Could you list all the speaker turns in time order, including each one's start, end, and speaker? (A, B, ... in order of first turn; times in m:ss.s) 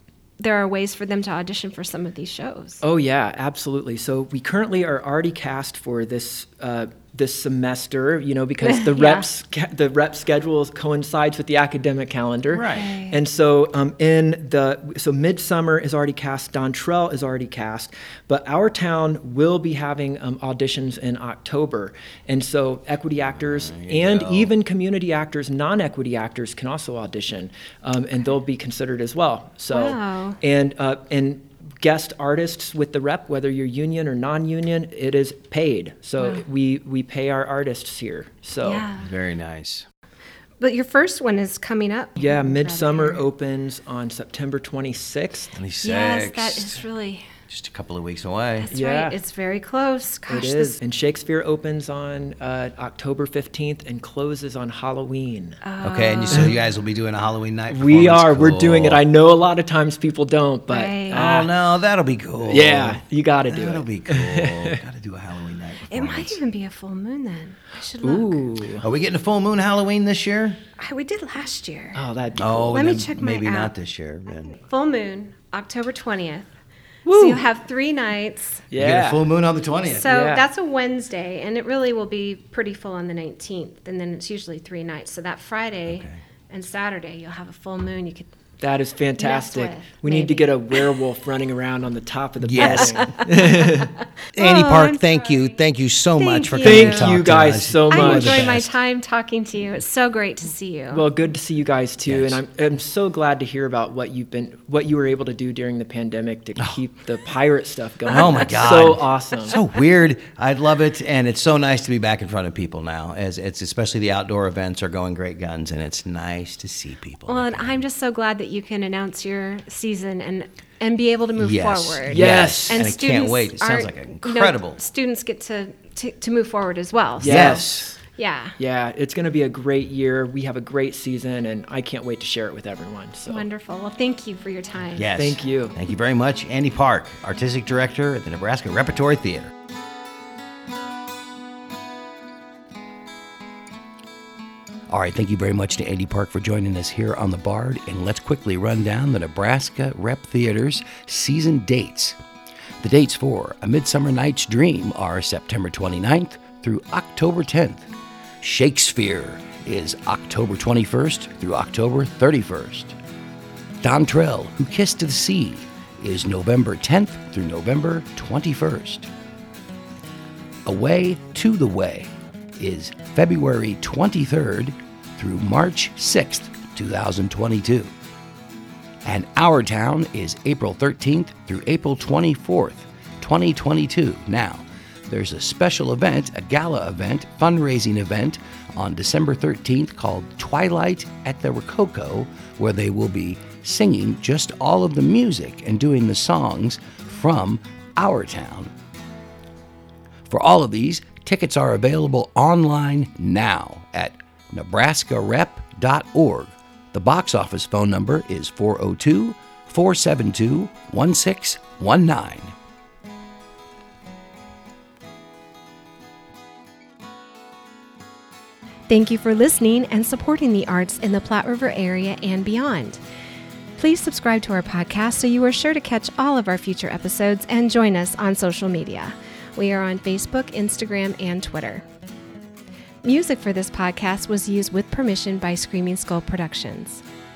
0:00.4-0:02.8 A
0:02.8-0:38.8 B
0:08.6-0:09.2 A
0:12.6-0:12.8 C
0:12.6-0:13.2 A
0:23.4-0:24.5 C
0:29.7-0:30.4 A
0:38.6-0:39.1 A
0:39.0-0:39.8 C
0:40.6-0:43.2 A
0:42.2-0:45.5 B
0:45.5-0:46.8 C
0:45.8-0:47.3 A
0:47.5-0:48.7 C
0:48.6-0:50.8 A
0:48.7-0:49.1 B
0:50.3-0:55.6 B
0:55.6-0:56.5 A
0:55.8-0:59.0 C
0:57.7-1:01.5 B
1:00.7-1:01.2 A
1:01.1-1:06.4 C
1:02.5-1:04.8 B
1:05.9-1:08.4 A
1:08.0-1:08.8 B
1:08.8-1:10.6 C
1:10.8-1:12.0 A
1:11.9-1:12.8 B
1:12.4-1:14.6 C
1:12.7-1:13.7 A
1:14.5-1:16.5 A
1:17.0-1:17.4 B
1:17.1-1:18.6 A
1:18.7-1:19.3 B
1:18.8-1:20.1 C
1:19.8-1:28.3 A
1:20.0-1:20.4 B
1:25.9-1:26.2 C
1:28.6-1:33.9 B
1:29.2-1:30.8 A
1:32.4-1:33.1 C
1:32.6-1:35.5 A
1:34.3-1:38.7 C
1:36.2-1:37.2 A
1:36.6-1:38.6 B
1:37.9-1:41.0 A
1:40.9-1:49.6 B
1:42.1-1:42.4 C
1:48.1-1:57.8 C
1:48.2-1:48.7 A
1:57.3-2:08.6 A
2:01.4-2:04.8 C
2:02.1-2:02.8 B
2:07.2-2:07.9 B
2:07.2-2:08.0 C
2:08.6-2:13.4 B
2:13.3-2:15.1 A
2:15.0-2:19.5 C
2:15.2-2:15.8 B
2:24.9-2:32.2 C
2:32.8-2:37.9 C
2:38.4-2:42.9 C
2:43.8-2:49.1 C
2:50.6-2:57.9 C
2:59.0-3:18.7 C
3:20.3-3:32.5 C
3:38.9-3:43.0 A
3:43.8-3:51.8 A
3:53.0-3:57.0 A